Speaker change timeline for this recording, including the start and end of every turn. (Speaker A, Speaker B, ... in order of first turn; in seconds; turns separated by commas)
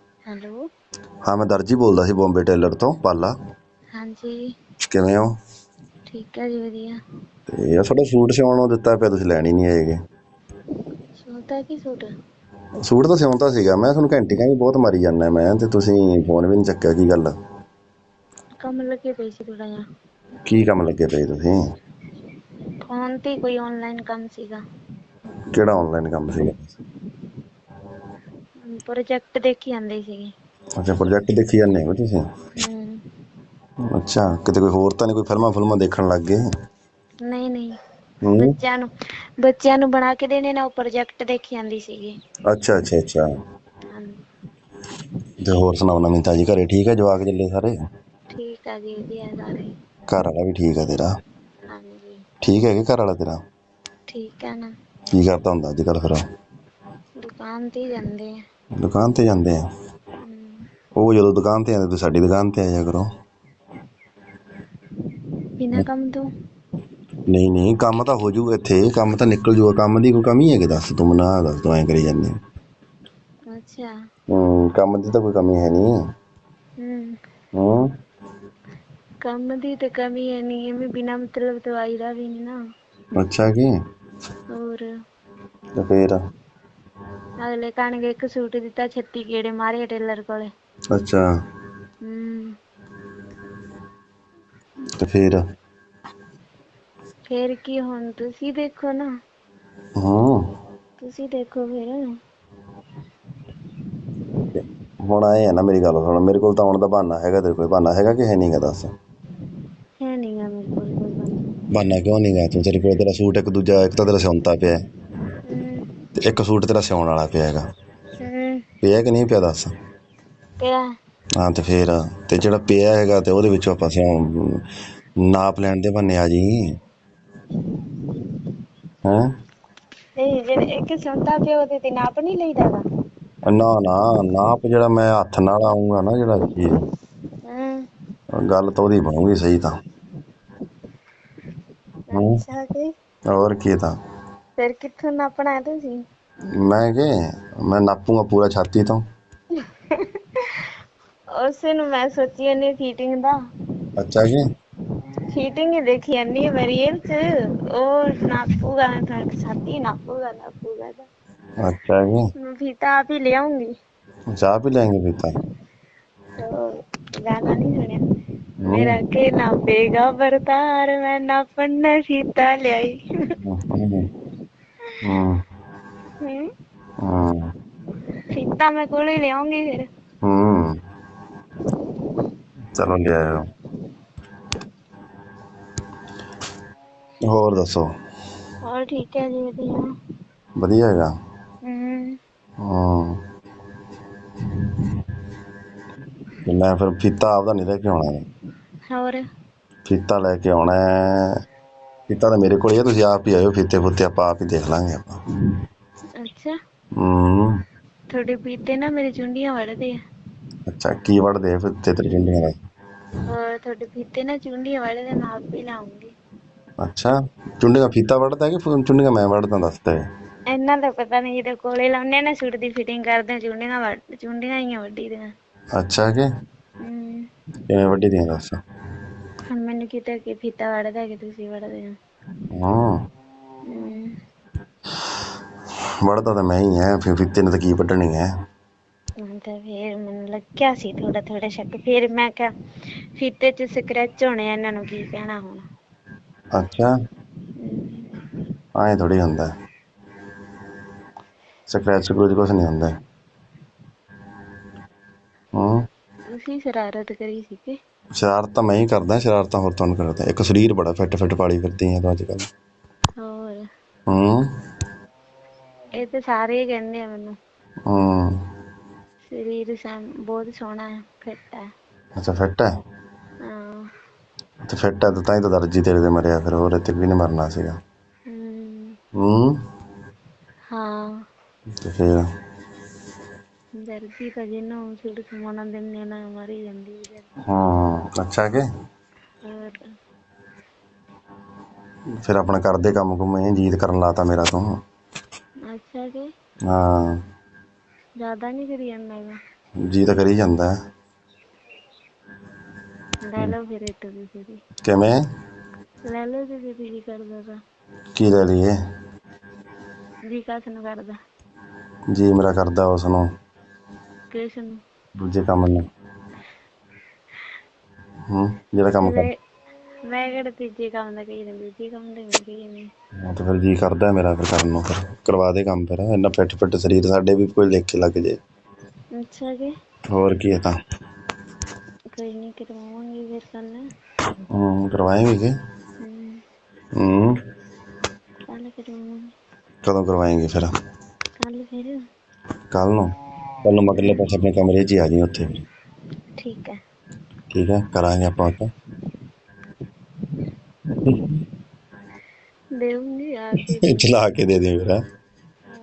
Speaker A: 0.3-0.6, Speaker B: 1.2-3.3, Speaker A: 4.0-4.4, Speaker B: 4.9-5.3, Speaker A: 6.1-7.0, Speaker B: 7.5-10.0, Speaker A: 11.2-12.1, Speaker B: 12.8-17.3, Speaker A: 18.6-19.8, Speaker B: 20.5-21.5, Speaker A: 22.9-24.6, Speaker B: 25.5-26.7, Speaker A: 28.6-30.3, Speaker B: 30.8-32.2, Speaker A: 32.6-33.0, Speaker B: 33.9-36.4, Speaker A: 37.2-37.7, Speaker B: 38.2-38.5, Speaker A: 38.3-38.9, Speaker A: 39.4-42.1, Speaker B: 42.5-43.2, Speaker A: 43.9-44.2, Speaker B: 45.4-47.7, Speaker A: 48.3-49.7, Speaker B: 50.1-51.1, Speaker A: 51.7-52.2, Speaker B: 52.4-53.4, Speaker A: 54.1-54.7, Speaker B: 55.1-56.2, Speaker A: 57.2-58.3, Speaker B: 58.8-59.6, Speaker A: 60.2-60.6, Speaker B: 61.0-63.1, Speaker A: 65.6-66.2, Speaker B: 67.3-72.3, Speaker A: 73.5-73.9, Speaker B: 74.3-75.9, Speaker A: 76.8-77.2, Speaker B: 77.5-77.9, Speaker A: 79.2-82.5, Speaker B: 83.2-83.7, Speaker A: 84.5-84.9, Speaker B: 85.8-86.2, Speaker A: 87.4-90.5, Speaker B: 90.9-91.2, Speaker A: 92.0-92.5, Speaker B: 95.0-95.4, Speaker A: 97.3-99.1, Speaker B: 100.0-100.4, Speaker A: 101.0-102.0, Speaker B: 104.5-108.9, Speaker A: 110.0-111.5, Speaker B: 111.7-114.8, Speaker A: 115.5-115.8, Speaker B: 116.2-117.6, Speaker A: 118.2-118.6, Speaker B: 118.8-119.7, Speaker B: 121.4-124.6, Speaker B: 125.3-126.6, Speaker A: 130.2-132.8, Speaker B: 133.4-136.7, Speaker A: 137.4-137.8, Speaker B: 138.4-139.7, Speaker A: 142.1-142.9, Speaker B: 142.1-142.4, Speaker B: 143.3-143.9, Speaker A: 144.6-146.0, Speaker B: 146.6-147.1, Speaker B: 147.6-149.0, Speaker A: 149.9-150.6, Speaker A: 151.4-153.3, Speaker B: 154.0-154.4, Speaker A: 155.3-161.1, Speaker B: 161.6-162.3, Speaker A: 162.4-163.7, Speaker B: 164.4-165.3, Speaker A: 166.4-168.0, Speaker B: 168.6-168.9, Speaker A: 168.7-173.0, Speaker B: 173.4-174.1, Speaker B: 175.0-175.4, Speaker A: 176.2-176.5, Speaker B: 177.0-177.4, Speaker A: 178.3-179.9, Speaker B: 180.2-180.7, Speaker B: 182.8-183.4, Speaker B: 187.3-187.9, Speaker A: 188.6-189.8, Speaker B: 190.6-191.1, Speaker A: 191.6-192.2, Speaker B: 192.6-193.2, Speaker B: 196.4-198.2, Speaker A: 198.9-199.2, Speaker B: 199.8-201.3, Speaker B: 202.1-205.2, Speaker A: 206.2-206.5, Speaker B: 207.0-207.5, Speaker A: 208.1-209.9, Speaker B: 210.7-212.5, Speaker A: 213.3-216.1, Speaker B: 216.8-220.0, Speaker A: 220.5-225.3, Speaker B: 225.8-226.3, Speaker A: 226.8-227.2, Speaker B: 227.7-228.6, Speaker A: 229.5-231.9, Speaker B: 232.5-232.9, Speaker A: 233.7-234.1, Speaker B: 236.0-238.2, Speaker A: 239.2-242.5, Speaker A: 243.2-245.6, Speaker B: 246.5-246.9, Speaker A: 247.6-248.0, Speaker B: 248.8-249.5, Speaker B: 251.7-252.9, Speaker B: 255.6-255.8, Speaker A: 256.3-257.8, Speaker B: 258.2-262.5, Speaker A: 263.2-263.6, Speaker B: 264.1-264.4, Speaker A: 266.0-267.4, Speaker B: 267.9-268.3, Speaker A: 269.3-271.6, Speaker B: 272.2-272.7, Speaker A: 273.4-273.8, Speaker B: 274.7-277.8, Speaker A: 278.3-278.9, Speaker B: 279.2-279.6, Speaker A: 280.7-281.1, Speaker B: 281.8-282.2, Speaker A: 283.8-287.2, Speaker B: 287.5-288.6, Speaker A: 289.4-289.8, Speaker B: 292.2-294.6, Speaker A: 295.7-296.3, Speaker B: 296.7-297.1, Speaker A: 298.2-299.4, Speaker B: 299.9-300.7, Speaker A: 303.2-304.6, Speaker B: 304.8-305.2, Speaker A: 306.1-307.6, Speaker B: 308.1-308.7, Speaker A: 310.3-311.2, Speaker B: 312.1-313.2, Speaker A: 314.3-314.8, Speaker B: 315.2-315.8, Speaker B: 318.3-319.2, Speaker A: 319.0-319.3, Speaker A: 320.1-322.9, Speaker B: 323.2-328.4, Speaker A: 329.2-329.7, Speaker B: 330.1-330.7, Speaker A: 332.1-333.8, Speaker B: 334.5-335.5, Speaker A: 336.0-336.4, Speaker B: 337.0-337.3, Speaker A: 338.5-339.2, Speaker B: 339.8-340.7, Speaker A: 341.4-342.0, Speaker B: 342.7-343.1, Speaker B: 343.6-345.6, Speaker A: 346.4-346.8, Speaker B: 347.5-348.7, Speaker B: 351.0-351.3, Speaker A: 352.8-354.0, Speaker B: 353.7-355.0